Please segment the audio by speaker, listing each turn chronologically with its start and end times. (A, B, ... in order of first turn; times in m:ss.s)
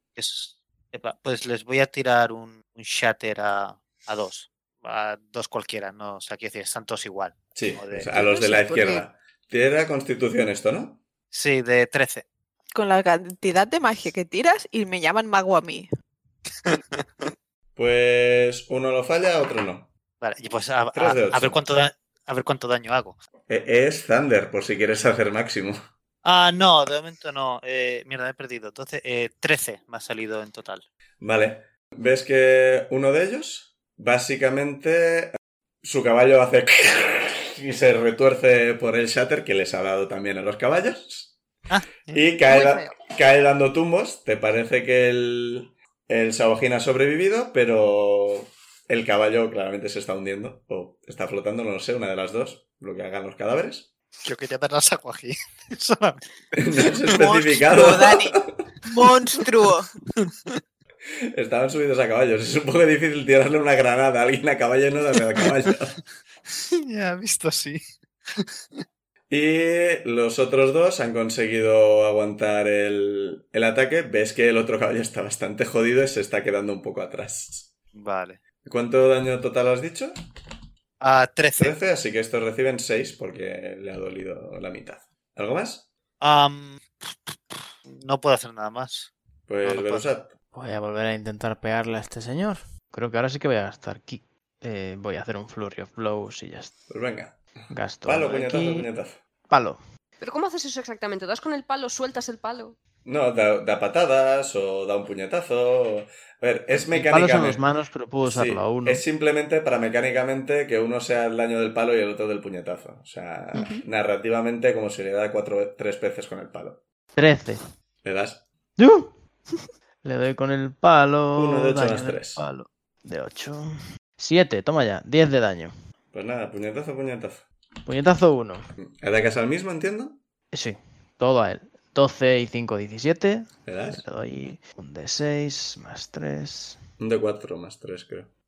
0:00.2-0:08.2 A
0:07.6-0:11.0 B
0:08.1-0:09.0 C
0:11.3-0:12.2 A
0:12.7-0:15.9 C
0:16.7-0:17.0 A
0:17.8-0:19.9 B
0:20.2-0:23.2 A
0:21.0-0:21.6 B
0:23.5-0:25.8 B
0:26.2-0:30.8 A
0:31.2-0:41.4 B
0:41.7-0:42.2 A
0:42.1-0:53.9 B
0:42.5-0:43.0 D
0:54.2-0:57.2 A
0:56.6-0:58.5 B
0:57.2-0:59.9 C
1:00.2-1:00.6 A
1:01.3-1:06.0 B
1:06.5-1:07.8 A
1:09.3-1:17.7 B
1:17.9-1:18.4 A
1:18.6-1:20.2 B
1:21.0-1:21.8 A
1:21.6-1:25.9 B
1:26.2-1:29.1 A
1:29.5-1:30.3 B
1:29.6-1:30.0 A
1:30.5-1:36.7 E
1:36.9-1:39.2 B
1:37.7-1:38.9 E
1:39.5-1:39.8 E
1:40.2-1:42.8 D
1:43.0-1:47.6 B
1:46.7-1:49.0 E
1:48.2-1:56.8 B
1:53.6-1:53.8 C
1:57.2-1:57.6 E
1:58.0-1:58.4 B
1:58.8-1:59.2 E
2:00.0-2:05.7 E
2:01.4-2:02.4 B
2:06.1-2:07.4 B
2:07.8-2:08.7 E
2:08.8-2:10.2 B
2:10.5-2:16.8 E
2:13.7-2:14.0 B
2:17.0-2:18.3 B